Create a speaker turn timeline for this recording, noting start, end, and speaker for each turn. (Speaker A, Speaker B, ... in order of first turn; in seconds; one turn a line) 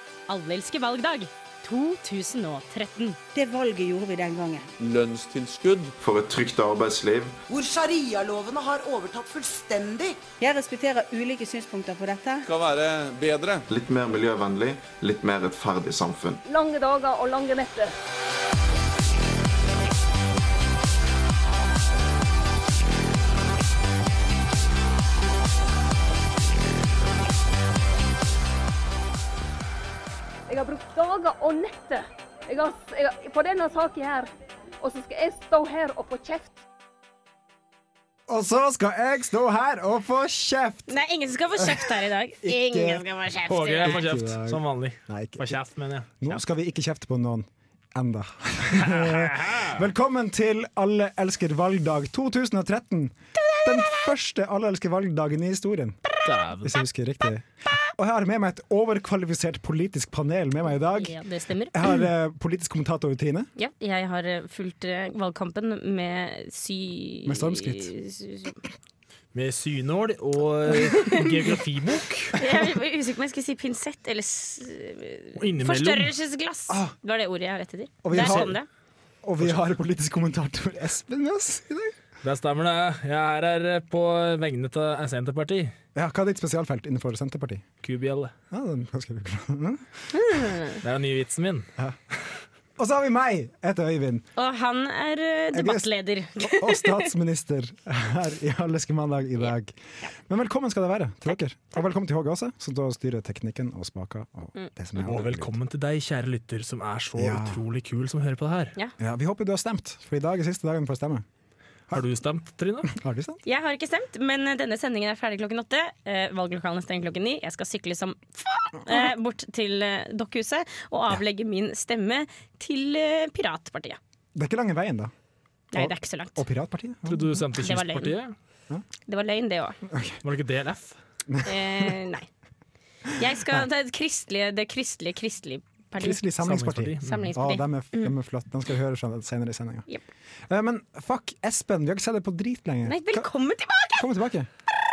Speaker A: 0.3-3.2
Speaker B: 3.3-4.7
Speaker C: 4.8-5.9
Speaker D: 6.0-7.3
Speaker E: 7.5-10.2
Speaker B: 10.4-12.4
Speaker C: 12.4-13.6
Speaker D: 13.7-16.4
Speaker F: 16.4-17.9
Speaker F: 30.5-34.3
Speaker F: 34.8-36.6
Speaker G: 38.3-40.9
Speaker A: 40.9-44.0
Speaker G: 41.6-41.9
Speaker G: 42.4-43.0
Speaker H: 43.5-46.4
Speaker G: 43.8-45.5
Speaker G: 46.2-56.0
Speaker H: 48.8-49.7
Speaker H: 56.2-56.8
Speaker G: 56.6-61.1
Speaker A: 60.9-61.9
Speaker G: 61.7-63.5
Speaker A: 63.5-68.5
Speaker G: 67.2-67.9
Speaker H: 69.3-72.4
Speaker A: 72.3-78.7
Speaker H: 75.4-76.1
Speaker G: 76.7-76.9
Speaker G: 78.0-78.5
Speaker H: 78.1-78.5
Speaker G: 79.2-81.9
Speaker H: 82.2-85.7
Speaker G: 85.9-87.6
Speaker H: 87.8-88.3
Speaker G: 88.5-89.8
Speaker A: 90.1-90.8
Speaker H: 90.8-91.7
Speaker G: 92.8-94.2
Speaker A: 94.3-97.1
Speaker G: 95.5-95.9
Speaker G: 96.4-105.5
Speaker H: 105.0-108.8
Speaker G: 107.2-107.6
Speaker G: 109.0-111.2
Speaker H: 111.9-112.9
Speaker G: 112.9-113.4
Speaker A: 113.5-124.0
Speaker G: 124.3-125.1
Speaker A: 125.7-126.4
Speaker G: 125.7-127.4
Speaker H: 127.1-128.3
Speaker A: 127.6-128.1
Speaker A: 129.1-129.8
Speaker G: 129.8-130.2
Speaker H: 130.2-131.0
Speaker G: 131.3-131.9
Speaker A: 131.4-132.3
Speaker A: 133.2-136.2
Speaker G: 136.0-139.9
Speaker H: 136.4-137.3
Speaker A: 137.0-138.1
Speaker G: 140.5-143.3
Speaker A: 142.8-144.1
Speaker G: 143.9-144.5